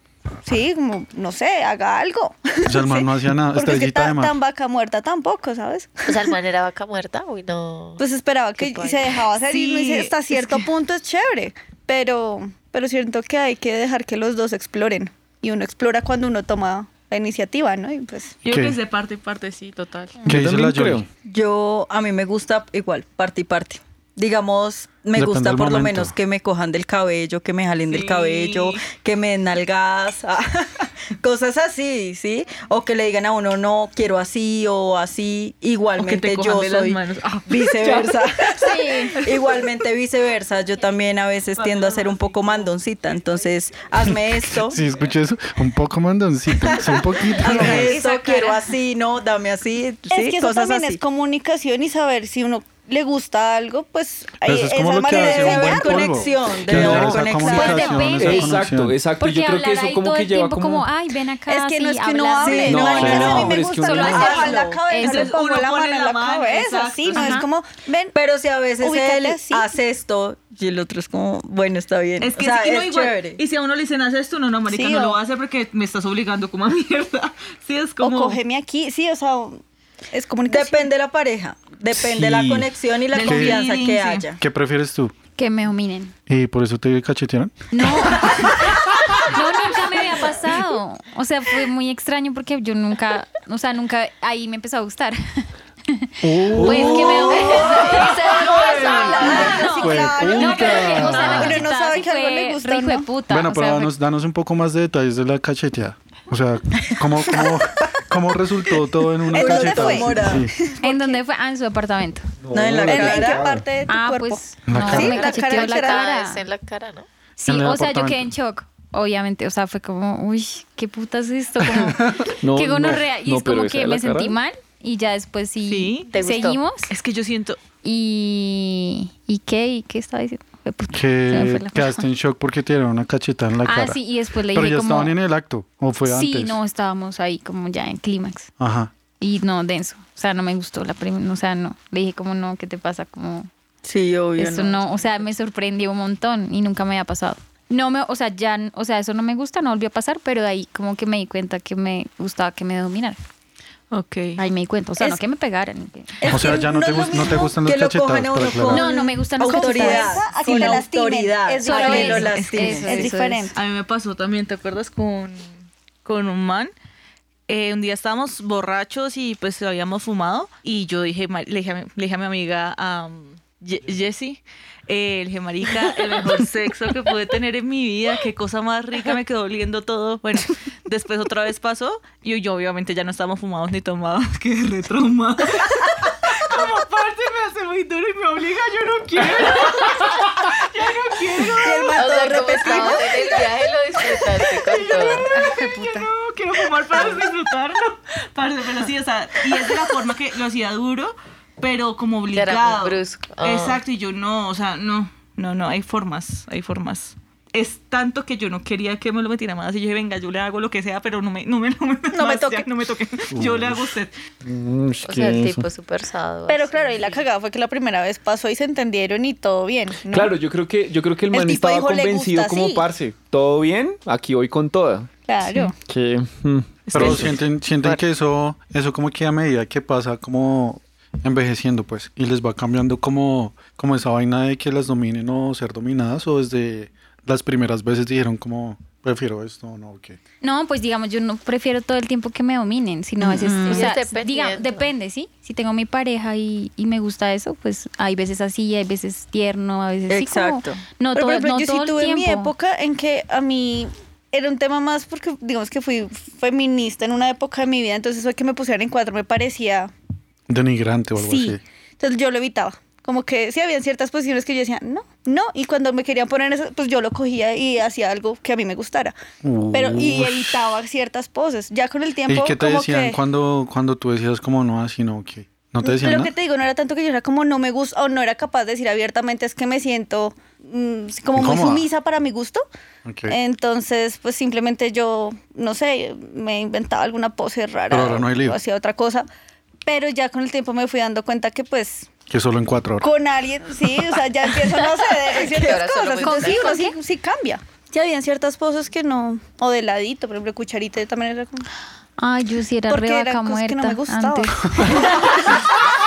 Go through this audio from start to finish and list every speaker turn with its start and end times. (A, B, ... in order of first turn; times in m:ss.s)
0:00.4-0:06.3 A
0:02.7-0:04.4 B
0:06.1-0:08.0 C
0:08.0-0:18.4 A
0:08.6-0:09.1 C
0:09.5-0:10.6 D
0:18.4-0:20.2 D
0:18.5-0:18.8 B
0:20.3-0:21.1 E
0:20.3-0:21.1 B
0:21.3-0:44.8 F
0:25.2-0:26.2 B
0:27.9-0:28.8 D
0:36.0-0:38.3 D
0:38.6-0:39.2 G
0:39.2-0:39.7 D
0:41.6-0:42.7 D
0:44.0-0:48.0 B
0:46.6-0:51.0 F
0:47.4-0:48.7 G
0:50.1-0:56.2 A
0:54.4-0:59.0 B
0:55.1-0:58.2 F
0:56.9-1:05.3 G
0:58.2-1:00.9 E
1:01.5-1:08.2 A
1:02.4-1:05.0 F
1:02.7-1:04.3 E
1:03.0-1:03.6 B
1:04.1-1:07.4 D
1:07.1-1:07.5 G
1:08.1-1:13.4 F
1:08.8-1:09.7 A
1:12.2-1:18.4 D
1:14.7-1:15.2 A
1:18.0-1:20.9 A
1:20.5-1:24.4 F
1:21.9-1:22.7 E
1:23.1-1:24.3 D
1:23.2-1:23.6 B
1:24.4-1:25.2 B
1:25.4-1:26.1 G
1:26.3-1:27.8 B
1:27.7-1:43.9 G
1:36.2-1:37.4 B
1:36.5-1:37.3 E
1:37.0-1:40.7 F
1:37.6-1:38.2 C
1:38.2-1:43.1 A
1:38.2-1:39.4 D
1:39.8-1:41.6 B
1:43.3-1:50.5 B
1:49.3-1:50.5 F
1:49.3-1:51.2 A
1:50.8-1:52.3 G
1:52.4-1:53.6 E
1:52.5-1:53.6 F
1:52.9-1:56.0 A
1:53.9-1:56.4 G
1:54.7-1:55.3 B
1:54.9-1:55.6 F
1:55.4-1:57.1 C
1:57.4-2:07.0 G
1:57.5-1:58.3 B
2:02.4-2:04.4 E
2:05.7-2:06.1 D
2:06.1-2:06.6 C
2:06.9-2:07.6 D
2:07.8-2:12.0 G
2:10.9-2:16.6 B
2:13.6-2:15.2 G
2:16.0-2:18.5 G
2:18.6-2:18.9 B
2:19.2-2:23.5 G
2:23.8-2:24.8 F
2:24.4-2:33.2 G
2:33.9-2:34.4 D
2:34.4-2:36.3 G
2:36.2-2:37.5 A
2:36.3-2:38.9 B
2:36.3-2:43.1 F
2:38.7-2:40.8 G
2:38.9-2:43.6 A
2:41.6-2:43.6 G
2:43.6-2:46.7 D
2:47.5-3:13.4 D
3:11.5-3:13.5 F
3:12.0-3:15.3 C
3:14.0-3:34.1 D
3:15.3-3:16.1 G
3:22.3-3:23.8 C
3:32.1-3:32.7 A
3:33.3-3:33.8 B
3:34.4-3:35.6 E
3:35.0-3:37.2 C
3:36.5-3:40.3 A
3:40.0-3:45.1 E
3:41.3-3:42.8 A
3:45.3-3:45.7 A
3:45.8-3:47.4 E
3:46.9-3:47.3 D
3:46.9-4:00.2 B
4:00.4-4:12.5 G
4:03.2-4:03.9 F
4:03.6-4:04.9 C
4:10.1-4:10.8 F
4:11.1-4:19.9 A
4:20.5-4:21.6 B
4:21.2-4:29.2 A
4:29.4-4:30.6 B
4:29.7-4:33.2 A
4:32.3-4:36.3 B
4:35.8-4:42.6 A
4:41.4-4:41.9 B
4:43.0-4:43.4 B
4:43.3-4:49.3 A
4:47.9-4:48.6 B
4:49.8-4:52.1 A
4:52.3-4:53.1 B
4:53.0-5:01.7 A
4:55.3-4:55.8 F
4:55.4-4:56.8 C
4:56.2-4:57.0 G
5:02.2-5:05.6 G
5:02.9-5:05.3 A